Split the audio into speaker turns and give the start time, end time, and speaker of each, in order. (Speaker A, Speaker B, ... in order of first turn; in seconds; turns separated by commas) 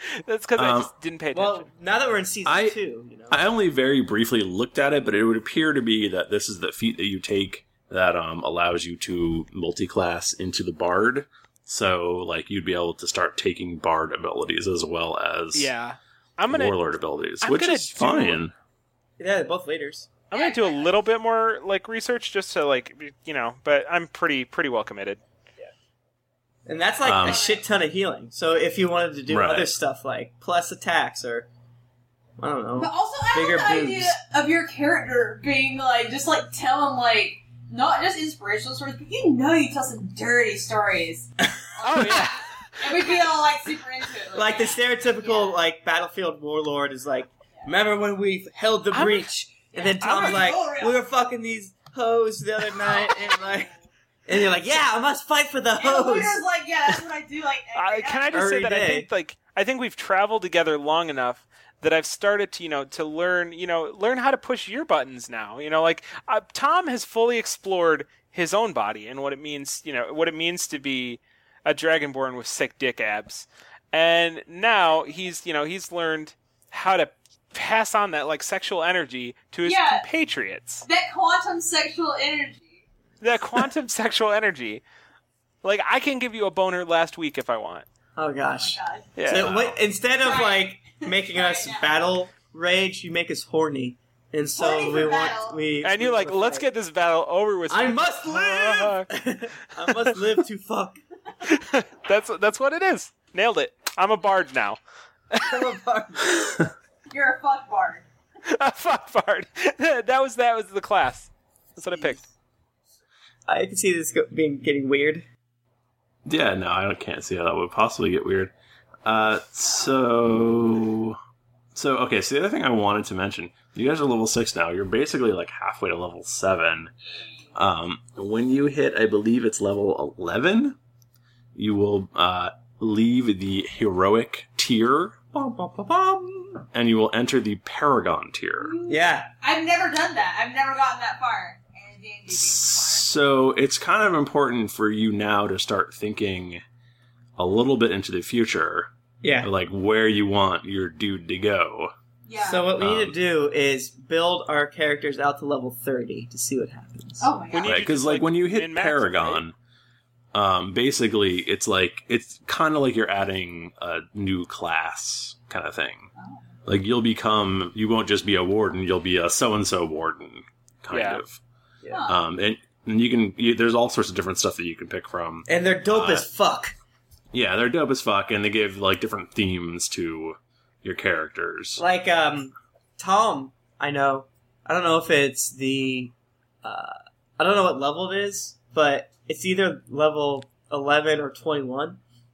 Speaker A: 0.2-1.7, Speaker B: 0.6-0.9, Speaker C: 1.4-3.4, Speaker B: 2.5-2.8, Speaker B: 3.3-15.7, Speaker A: 15.5-16.8, Speaker B: 16.5-18.5, Speaker A: 17.4-18.4, Speaker C: 19.2-20.1, Speaker A: 20.3-25.2, Speaker D: 20.3-20.9, Speaker C: 26.7-31.5, Speaker B: 27.0-27.5, Speaker D: 27.2-27.6, Speaker B: 29.3-29.7, Speaker C: 32.4-34.2, Speaker D: 32.8-41.3, Speaker A: 41.8-42.8, Speaker D: 41.9-45.6, Speaker C: 44.3-53.7, Speaker A: 48.9-49.2, Speaker D: 49.7-51.0, Speaker A: 50.0-50.5, Speaker D: 52.8-53.7, Speaker C: 54.3-56.4, Speaker D: 55.8-58.3, Speaker A: 57.8-80.8, Speaker C: 58.3-59.1, Speaker D: 79.7-80.0, Speaker D: 80.8-82.8, Speaker A: 83.2-84.8, Speaker A: 85.6-87.9, Speaker C: 88.2-96.7, Speaker D: 88.5-89.2, Speaker A: 89.2-89.6, Speaker B: 89.3-89.8, Speaker D: 90.2-91.9, Speaker D: 94.5-95.6, Speaker A: 95.8-99.1, Speaker C: 97.7-101.0, Speaker A: 101.4-104.8, Speaker C: 105.4-106.5, Speaker D: 107.1-108.1, Speaker A: 108.5-112.2, Speaker C: 112.0-112.3, Speaker C: 113.5-115.3, Speaker B: 116.2-118.5, Speaker B: 119.0-121.2, Speaker B: 121.8-126.9, Speaker B: 127.5-130.8, Speaker B: 131.6-135.2, Speaker C: 135.3-136.6, Speaker B: 136.7-138.8, Speaker D: 138.6-143.1, Speaker C: 138.9-139.3, Speaker B: 142.3-146.6, Speaker B: 147.4-151.9, Speaker C: 149.2-149.5, Speaker D: 152.3-152.7, Speaker C: 152.4-157.3, Speaker B: 152.8-153.2, Speaker D: 157.2-157.8, Speaker A: 157.5-159.4, Speaker B: 157.6-159.6, Speaker B: 160.3-166.1, Speaker D: 166.2-166.5, Speaker B: 166.7-171.4, Speaker A: 170.9-171.2, Speaker D: 171.9-172.2, Speaker B: 172.1-176.3, Speaker C: 175.5-176.8, Speaker B: 177.3-181.8, Speaker C: 181.8-192.0